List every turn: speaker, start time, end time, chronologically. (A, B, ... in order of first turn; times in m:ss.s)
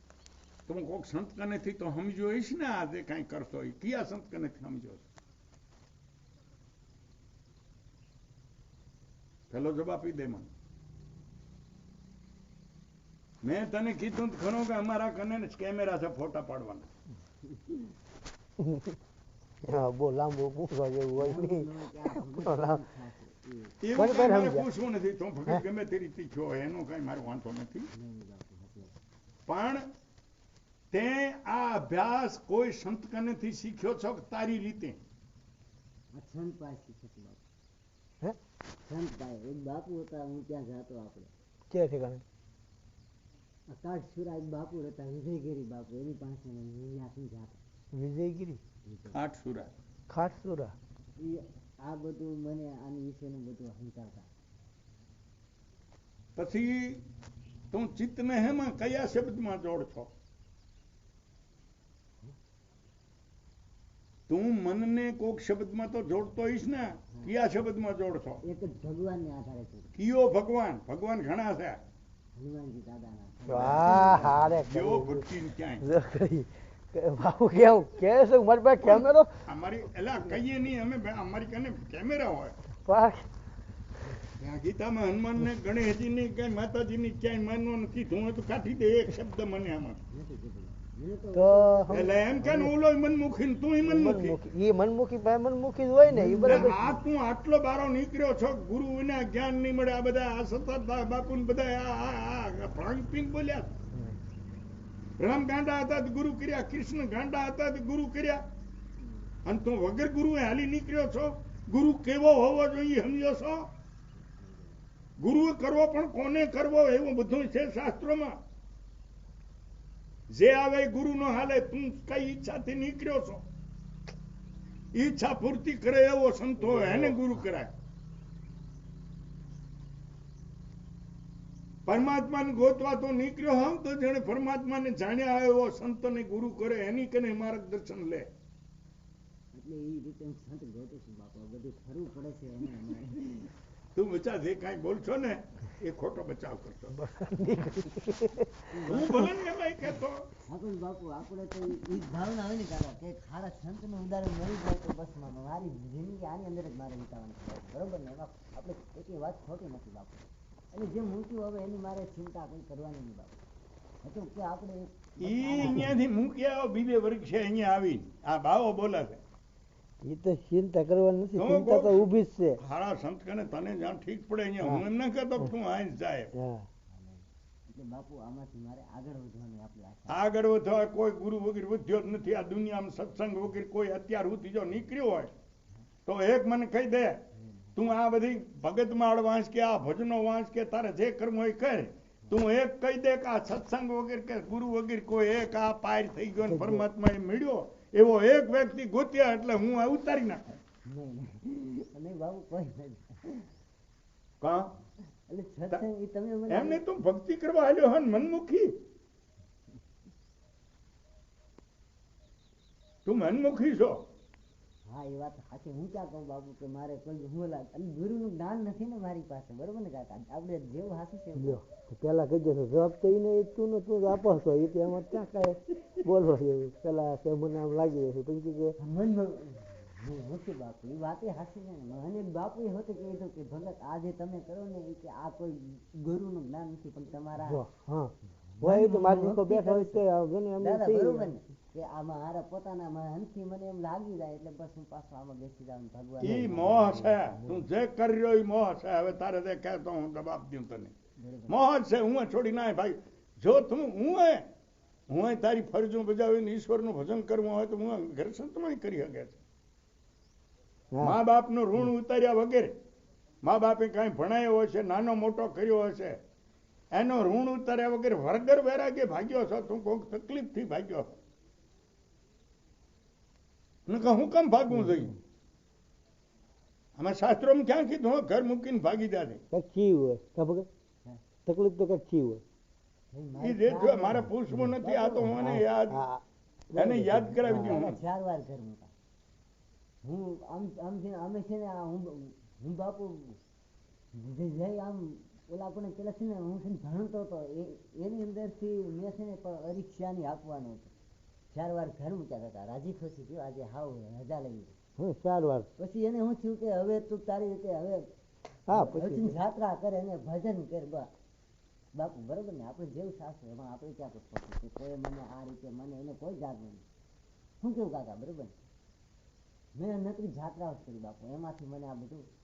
0:00.7-0:05.1 A
0:09.5-0:10.5 A
0:13.4-0:16.9 A
0:17.5-0:17.8 B
0:18.6-0:19.0 C
0:19.6-0:22.8 C
0:21.2-0:23.8 B
0:23.8-0:27.9 A
0:24.0-0:24.7 C
0:27.9-0:28.9 B
0:29.5-0:29.9 A
0:30.9-0:35.0 A
0:36.1-0:37.4 B
0:38.9-0:41.3 B
0:41.7-0:42.2 C
0:43.7-0:47.6 B
0:47.9-0:48.6 C
0:48.8-0:49.2 B
0:49.1-0:49.7 A
0:50.1-0:50.8 C
0:51.2-0:54.3 B
0:56.4-0:57.0 A
0:57.7-1:00.1 A
1:04.3-1:08.4 A
1:08.4-1:09.9 B
1:10.0-1:11.8 A
1:12.4-1:14.4 B
1:13.5-1:15.3 C
1:13.5-1:15.9 A
1:15.8-1:19.3 C
1:18.8-1:22.6 A
1:22.9-1:23.3 C
1:24.4-1:30.0 A
1:30.1-1:32.4 B
1:31.3-1:32.7 C
1:31.9-1:34.4 A
1:33.8-1:36.9 C
1:36.1-1:36.9 B
1:36.4-1:43.7 A
1:45.2-1:48.4 A
1:49.4-1:53.7 A
1:54.2-1:54.9 B
1:55.2-1:58.4 A
2:00.3-2:03.4 A
2:04.9-2:07.7 A
2:06.6-2:07.2 C
2:11.9-2:18.3 A
2:19.6-2:23.5 B
2:23.9-2:27.0 A
2:26.9-2:29.3 C
2:28.7-2:29.3 B
2:28.9-2:30.2 A
2:30.5-2:43.4 B
2:44.0-2:46.0 B
2:45.2-2:49.2 A
2:50.0-2:52.6 C
2:51.4-2:56.3 A
2:54.6-2:54.8 C
2:56.4-2:56.7 C
2:56.9-3:00.3 B
3:00.1-3:05.3 A
3:06.1-3:07.2 A
3:07.4-3:07.8 B
3:07.8-3:20.6 A
3:16.4-3:16.9 C
3:20.9-3:23.5 B
3:24.4-3:24.7 A
3:25.3-3:26.8 B
3:26.5-3:28.7 A
3:33.0-3:34.0 A
3:34.9-3:41.6 B
3:41.4-3:48.8 C
3:48.8-3:57.6 B
3:57.4-4:01.3 C
3:58.6-4:00.0 B
4:00.6-4:06.6 B
4:06.2-4:07.6 C
4:06.2-4:10.9 A
4:11.2-4:11.6 B
4:11.5-4:14.4 A
4:15.1-4:19.4 A
4:20.9-4:21.2 C
4:21.0-4:22.7 A
4:23.4-4:26.2 A
4:26.9-4:31.2 A
4:33.9-4:35.2 A
4:34.7-4:35.1 C
4:37.0-4:39.4 A
4:39.5-4:40.7 C
4:41.5-4:42.4 C
4:43.1-4:45.4 B
4:43.4-4:46.0 A
4:45.2-4:47.8 C
4:46.7-4:48.0 A
4:47.4-4:48.9 B
4:50.0-4:53.4 B
4:54.2-5:00.9 B
5:01.5-5:04.8 B
5:05.0-5:05.7 C
5:05.8-5:08.0 B
5:08.7-5:09.4 C
5:08.7-5:11.1 B
5:11.9-5:16.8 B
5:17.6-5:18.5 B
5:19.8-5:22.2 B